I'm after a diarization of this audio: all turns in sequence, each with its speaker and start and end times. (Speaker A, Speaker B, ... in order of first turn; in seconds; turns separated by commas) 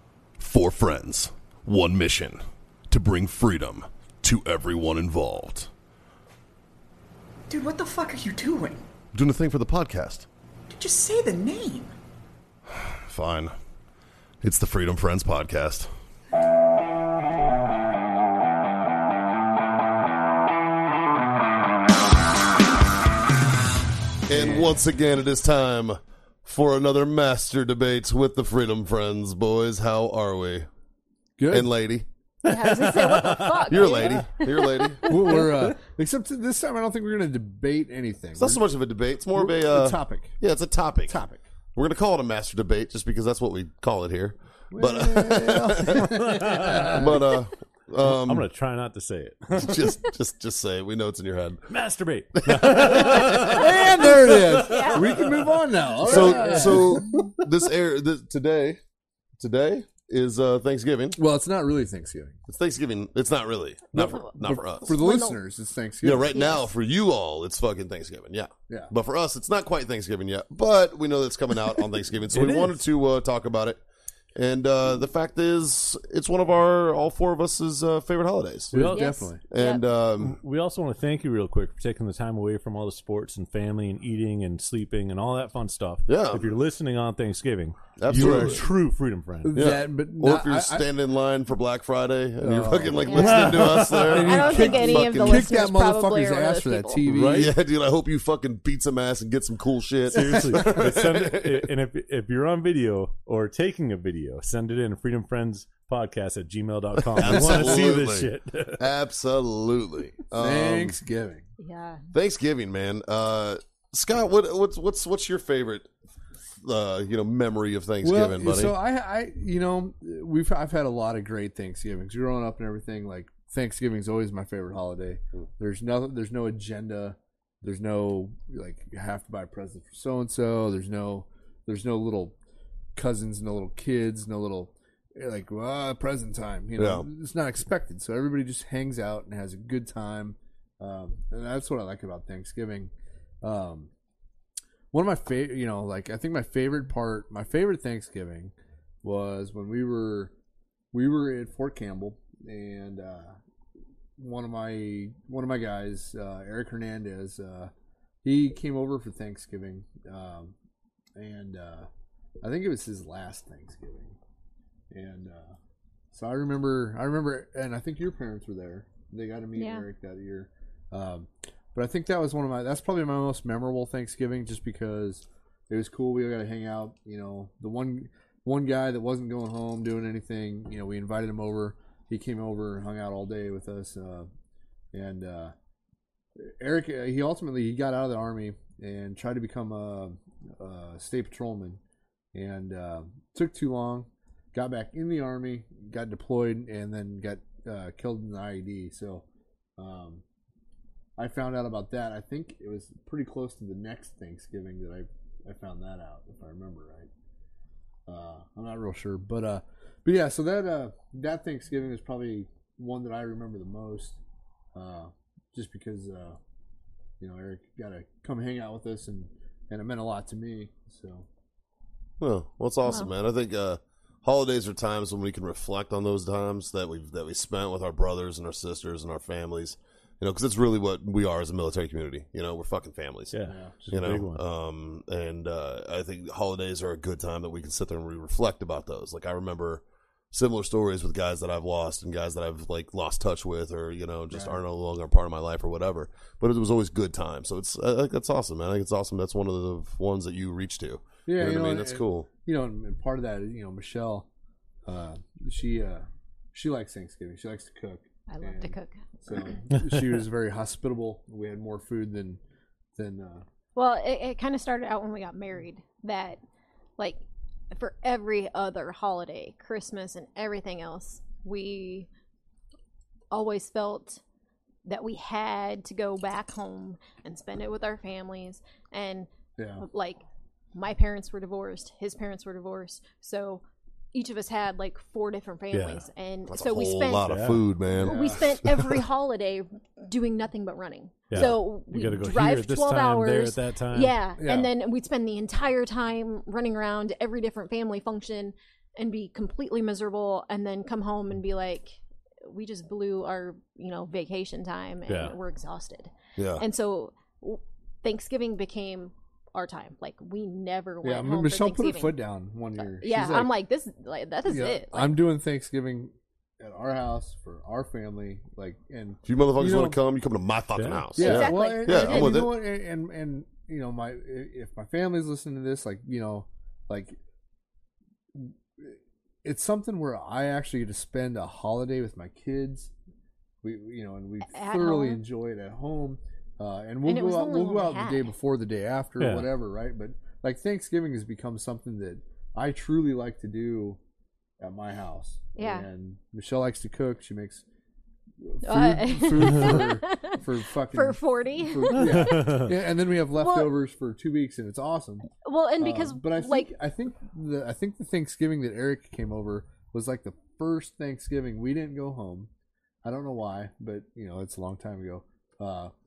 Speaker A: 0.4-5.7, Speaker B: 7.5-8.8, Speaker A: 9.2-10.3, Speaker B: 10.7-11.9, Speaker A: 12.7-13.5, Speaker A: 14.4-15.9, Speaker A: 24.3-30.7, Speaker C: 24.3-24.8, Speaker C: 31.4-31.7, Speaker A: 31.5-32.1, Speaker D: 32.4-34.2, Speaker E: 32.5-35.5, Speaker A: 33.7-35.1, Speaker C: 35.0-38.6, Speaker A: 38.4-41.2, Speaker C: 39.3-40.4, Speaker C: 41.1-41.4, Speaker A: 41.8-48.5, Speaker C: 44.7-47.2, Speaker D: 46.4-47.0, Speaker D: 48.0-49.9, Speaker A: 49.5-51.6, Speaker D: 51.7-55.2, Speaker A: 52.5-53.5, Speaker C: 52.9-57.5, Speaker E: 54.6-55.2, Speaker A: 56.0-58.8, Speaker D: 56.2-56.7, Speaker A: 59.4-61.2, Speaker C: 61.2-62.4, Speaker A: 62.5-65.0, Speaker C: 63.9-66.3, Speaker E: 64.0-65.4, Speaker A: 66.0-73.8, Speaker E: 66.3-66.7, Speaker D: 72.3-72.8, Speaker A: 74.4-78.8, Speaker C: 78.7-79.4, Speaker D: 78.7-79.0, Speaker E: 78.9-79.8, Speaker A: 79.5-80.4, Speaker D: 80.2-89.7, Speaker A: 86.1-86.5, Speaker A: 88.0-88.7, Speaker C: 88.1-88.6, Speaker C: 89.4-90.9, Speaker A: 89.5-95.5, Speaker C: 92.4-97.5, Speaker E: 93.0-93.4, Speaker D: 93.2-94.4, Speaker E: 94.2-97.1, Speaker D: 97.1-97.5, Speaker A: 97.2-101.6, Speaker D: 100.1-108.9, Speaker A: 107.2-111.0, Speaker C: 107.2-107.7, Speaker C: 110.3-111.5, Speaker E: 111.6-112.0, Speaker A: 112.1-115.9, Speaker A: 116.6-118.8, Speaker C: 118.0-132.4, Speaker C: 133.0-143.9, Speaker A: 136.8-137.1, Speaker C: 144.9-150.3, Speaker C: 150.9-153.4, Speaker C: 154.2-157.7, Speaker C: 158.2-160.6, Speaker C: 161.2-161.9, Speaker C: 162.4-164.2, Speaker C: 164.9-165.6, Speaker C: 166.1-184.3, Speaker E: 169.6-169.9, Speaker C: 184.9-185.5, Speaker C: 186.4-191.8, Speaker C: 192.3-199.2, Speaker C: 199.8-200.2, Speaker C: 201.2-207.1, Speaker C: 208.1-214.2, Speaker C: 214.8-216.4, Speaker C: 217.2-221.3, Speaker A: 222.2-233.4, Speaker E: 222.8-223.1, Speaker D: 233.3-234.4, Speaker C: 233.5-233.8, Speaker A: 233.9-252.3, Speaker C: 244.3-244.6, Speaker C: 251.3-254.3, Speaker C: 254.9-262.4, Speaker E: 258.3-259.6, Speaker C: 263.0-263.4, Speaker E: 263.8-266.4, Speaker E: 267.7-272.1, Speaker E: 273.3-274.2, Speaker E: 274.9-287.3, Speaker C: 279.6-279.9, Speaker D: 285.7-286.1, Speaker A: 286.5-289.0, Speaker D: 287.2-287.7, Speaker E: 287.9-312.2, Speaker C: 288.0-288.4, Speaker D: 291.3-294.2, Speaker C: 294.4-294.7, Speaker D: 305.1-305.4, Speaker A: 306.4-306.6, Speaker C: 311.0-313.5, Speaker E: 312.8-315.2, Speaker C: 314.5-320.0, Speaker A: 319.2-322.6, Speaker D: 320.8-321.1, Speaker C: 321.2-327.2, Speaker E: 321.2-322.4, Speaker C: 328.3-332.9, Speaker C: 333.6-344.0, Speaker E: 334.4-335.2, Speaker E: 337.1-338.3, Speaker D: 339.2-339.5, Speaker C: 344.6-347.6, Speaker E: 345.6-345.9, Speaker C: 348.4-362.5, Speaker E: 348.7-352.4, Speaker D: 351.9-352.8, Speaker E: 353.4-353.7, Speaker E: 355.4-356.7, Speaker C: 363.0-365.9